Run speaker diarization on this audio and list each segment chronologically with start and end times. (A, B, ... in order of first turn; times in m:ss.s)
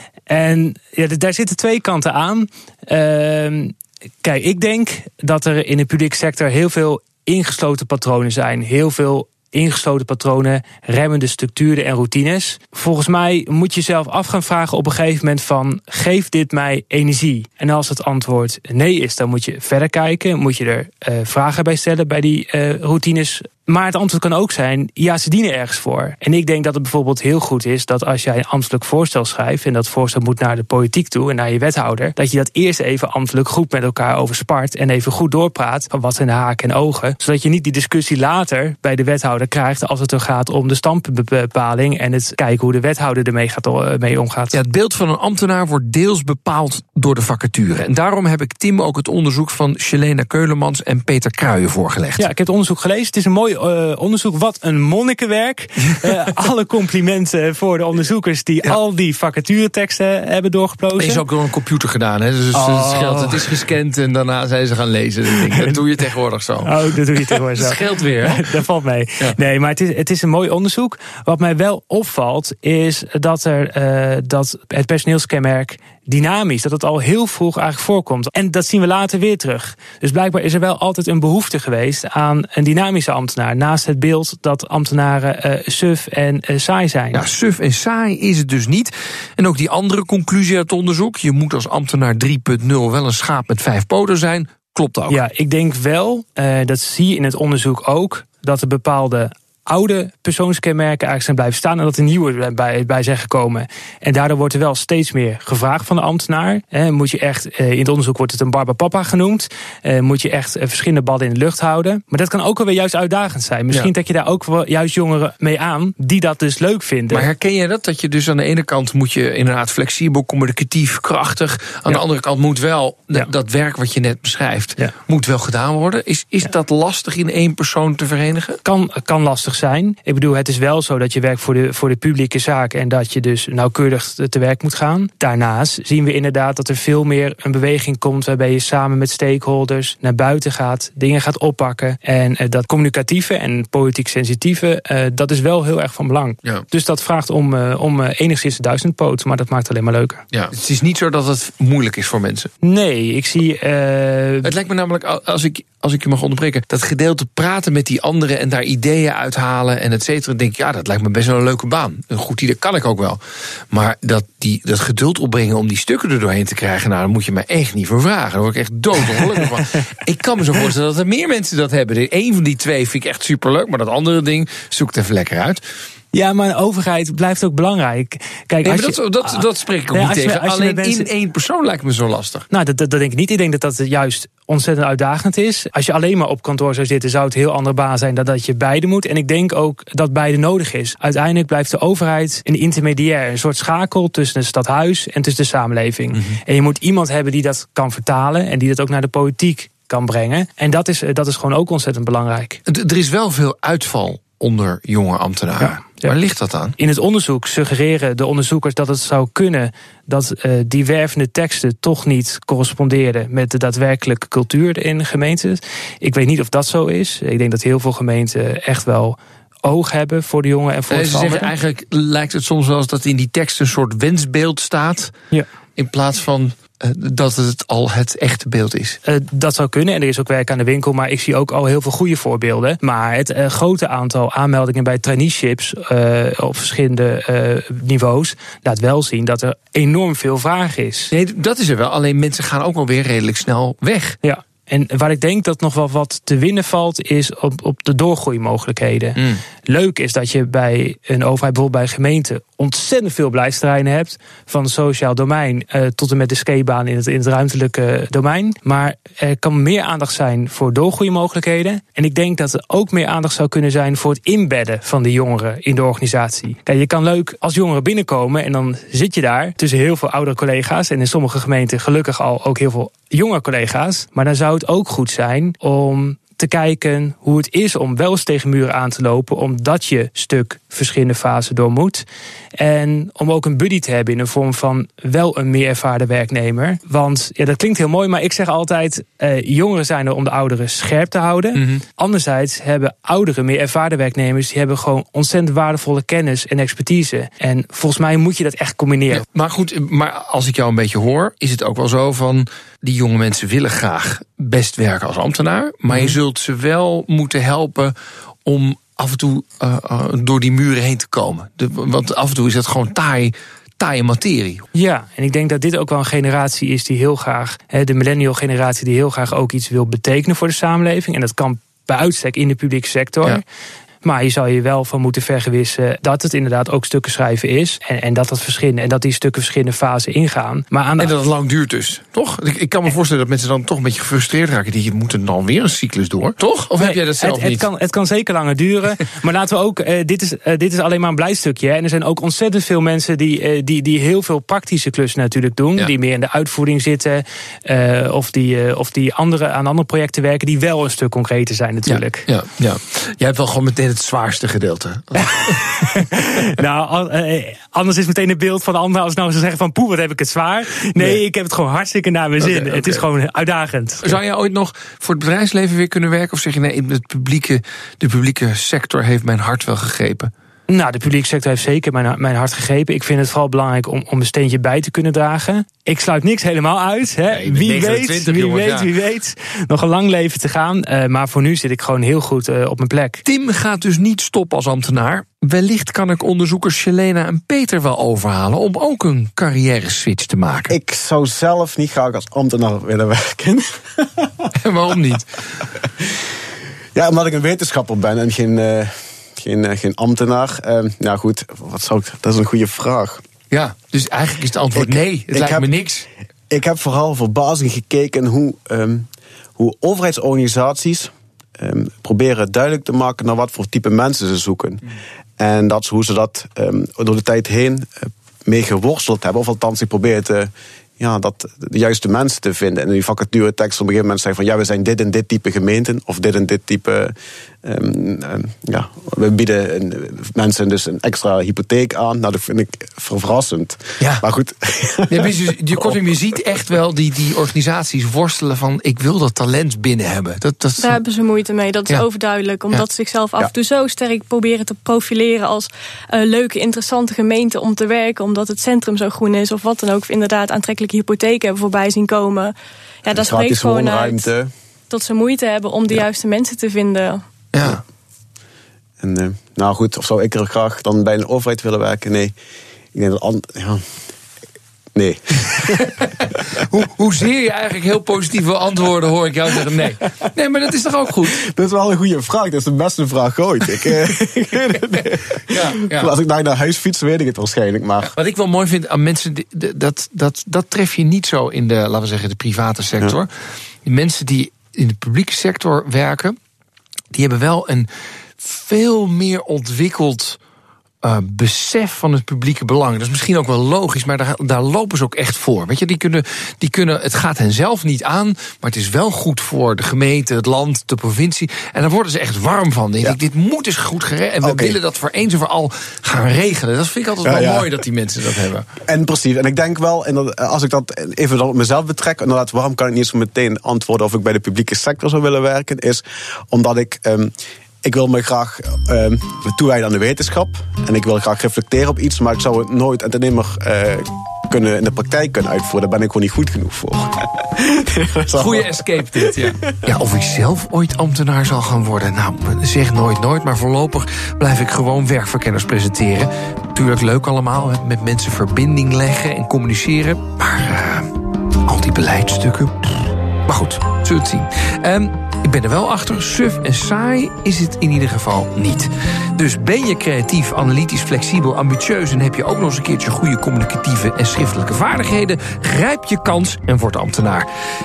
0:00.3-0:44.6 A
0:44.5-0:52.2 B
0:52.2-1:01.2 A
1:01.0-1:08.5 B
1:02.5-1:03.5 A
1:06.6-1:27.2 A
1:27.1-1:35.2 B
1:35.1-1:57.3 A
1:57.1-2:08.6 B
2:08.6-2:30.2 A
2:30.3-2:32.5 B
2:32.6-2:34.5 A
2:34.4-2:43.2 B
2:43.7-2:55.6 B
2:56.1-2:59.4 A
2:58.6-3:02.4 B
2:59.9-3:01.1 A
3:02.5-3:22.6 A
3:22.6-3:26.7 B
3:25.6-3:26.1 A
3:26.8-3:41.5 A
3:40.9-3:45.1 B
3:45.8-3:49.0 B
3:49.0-4:01.1 A
4:01.1-4:04.2 B
4:04.2-4:42.0 A
4:42.6-4:59.2 A
4:51.5-4:51.8 B
4:59.1-5:07.9 B
5:05.9-5:06.2 A
5:08.4-5:14.6 B
5:14.7-5:23.4 A
5:24.0-5:31.1 A
5:31.0-5:37.6 B
5:36.8-5:52.2 A
5:51.9-5:55.8 B
5:55.2-6:04.2 A
6:02.4-6:03.0 B
6:04.0-6:10.3 B
6:10.7-6:23.2 A
6:17.3-6:18.9 B
6:23.2-6:30.7 B
6:30.7-6:34.5 C
6:34.6-6:35.4 B
6:36.9-6:43.2 C
6:43.5-6:46.1 B
6:44.7-6:45.7 C
6:46.5-6:54.8 C
6:55.4-7:16.0 C
7:15.1-7:21.0 B
7:20.8-7:32.5 D
7:33.0-7:34.3 D
7:33.1-7:34.5 C
7:34.9-7:37.2 D
7:37.5-7:37.8 B
7:39.0-7:42.3 C
7:42.9-7:43.8 C
7:44.9-7:45.9 C
7:45.7-7:51.4 B
7:51.2-7:58.1 C
7:54.9-7:56.1 B
7:58.0-8:03.3 B
8:03.8-8:06.4 B
8:07.1-8:07.9 B
8:08.4-8:10.4 B
8:11.0-8:28.7 B
8:24.4-8:24.8 C
8:27.2-8:27.7 C
8:28.8-8:49.6 C
8:48.3-9:01.1 B
9:01.6-9:17.5 B